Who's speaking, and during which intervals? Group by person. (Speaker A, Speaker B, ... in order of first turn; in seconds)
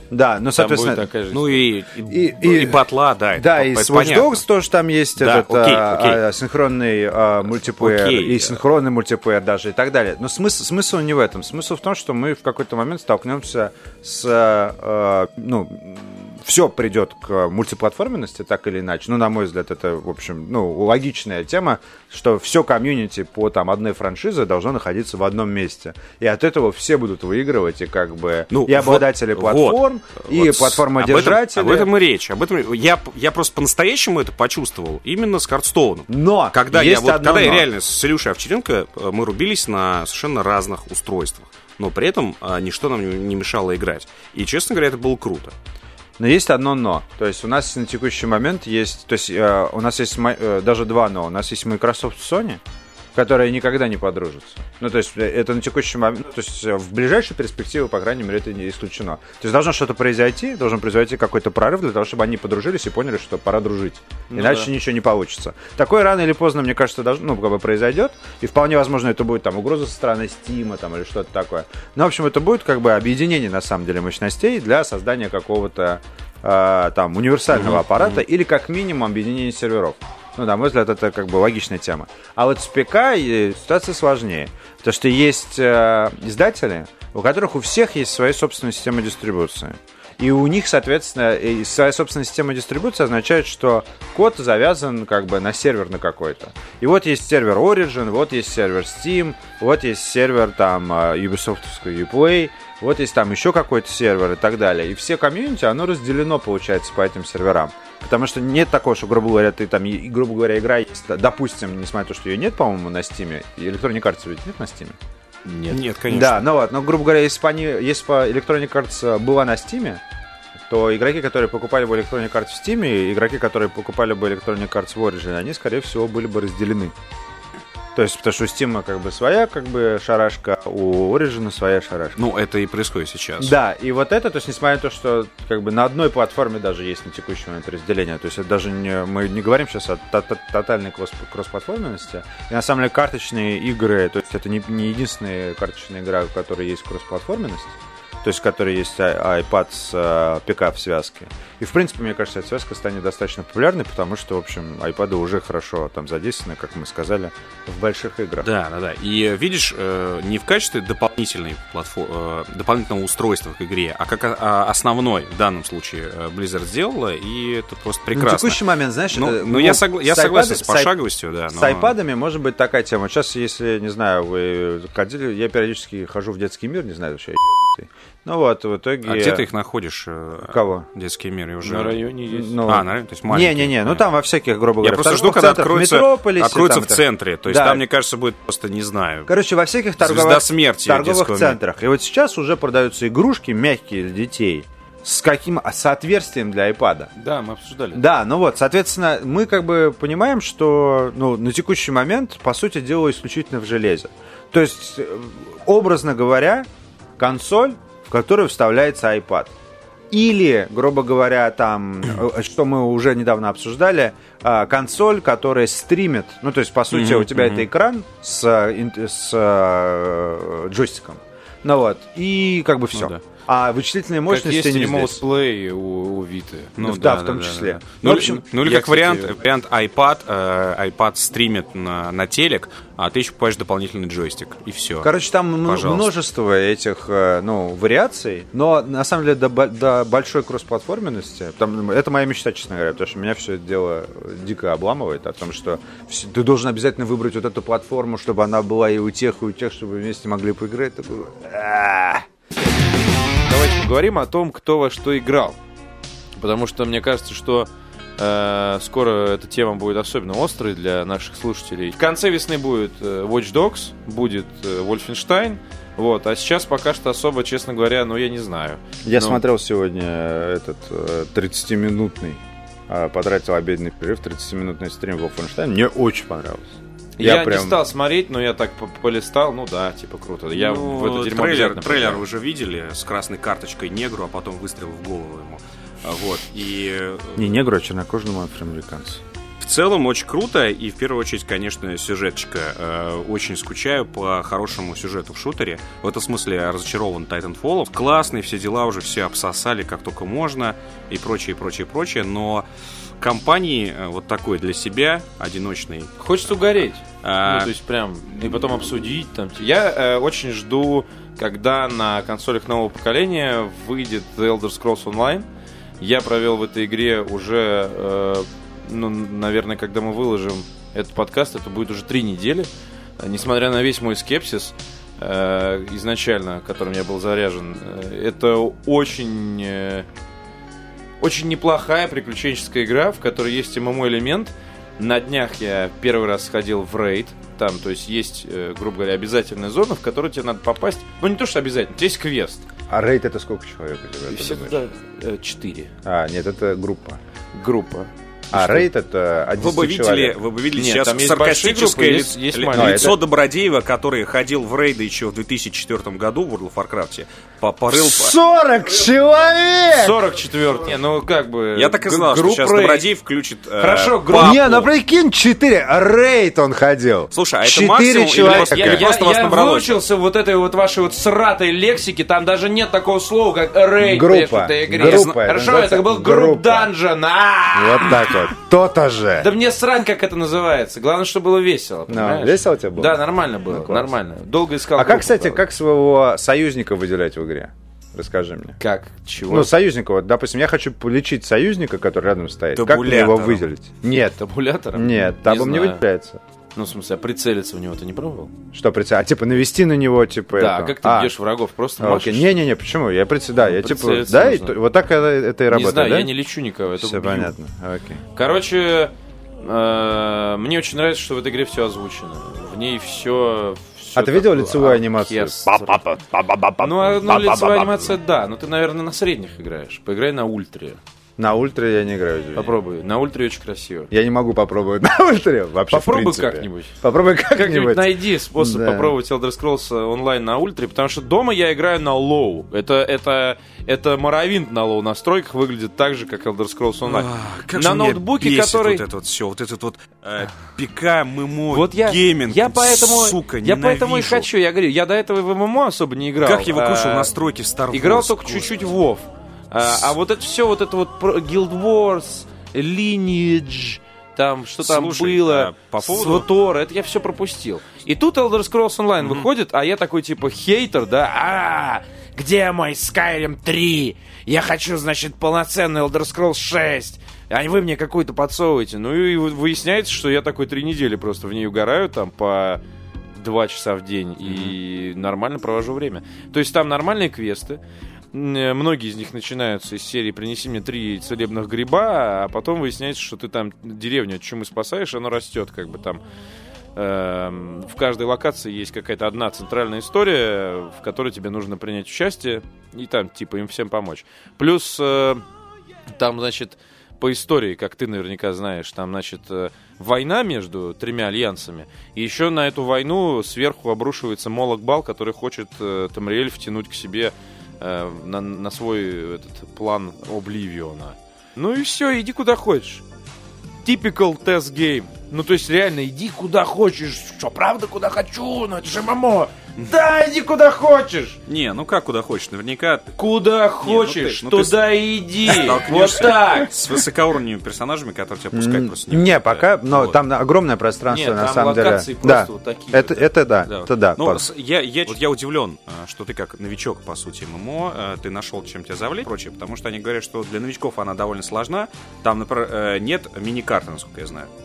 Speaker A: 0.1-1.1, 2.1-2.8, 3.4-31.9, 36.1-37.7, 46.2-52.6, 53.1-115.0, 116.1-120.0, 120.7-126.9, 127.9-132.2, 133.4-158.5, 168.1-170.9, 171.5-179.4, 180.5-180.9, 182.3-187.8, 189.3-197.1, 197.9-206.7, 207.2-209.5, 210.1-225.2, 226.8-229.3, 235.0-252.2, 269.0-277.8, 287.4-289.2, 342.9-344.8, 346.0-347.2, 348.5-350.4, 352.7-353.1, 357.9-360.2, 364.3-369.0, 374.0-376.9, 377.7-379.5, 382.1-384.1, 385.0-388.8, 389.5-394.4, 394.9-396.4, 398.7-401.3, 402.0-406.3, 407.0-408.2, 414.1-418.1, 421.4-422.7, 424.1-429.1, 528.5-534.4
Speaker B: 0.6-1.7, 64.3-64.7, 115.5-115.8, 181.6-182.7, 197.2-198.0, 224.3-226.8, 253.4-255.6, 256.4-269.4, 277.2-282.2, 306.2-315.4, 316.0-330.1, 331.2-342.6, 344.2-345.9, 347.5-348.8, 350.8-353.1, 359.9-363.1, 363.8-364.6, 368.4-378.5, 379.4-385.6, 388.8-389.7, 394.4-396.0, 396.7-398.5, 400.5-402.6, 403.6-404.8, 405.7-407.5, 408.3-416.0, 416.8-421.0, 422.5-424.1, 425.9-426.9, 427.5-439.0, 441.7-447.3, 447.9-472.8, 473.3-477.8, 478.3-486.2, 486.9-495.4, 496.1-513.0, 513.8-521.4, 523.1-526.7, 531.1-533.8
Speaker C: 1.3-4.4, 5.2-6.2, 7.7-8.6, 28.5-45.5, 115.7-116.4, 132.2-133.5, 158.4-168.6, 169.1-171.9, 179.0-182.0, 182.7-184.0, 184.8-189.3, 190.0-191.6, 216.9-217.6, 222.9-223.2, 226.8-235.1, 235.6-236.1, 280.5-287.6, 289.6-302.6, 303.2-306.1, 307.2-307.7, 349.6-358.4, 361.7-364.9, 367.3-370.0, 375.0-375.4, 392.7-393.7, 437.0-444.5, 446.4-448.8, 454.8-456.5, 459.2-459.5, 474.4-474.7, 521.5-523.1, 523.8-524.8, 525.5-530.2, 534.1-544.5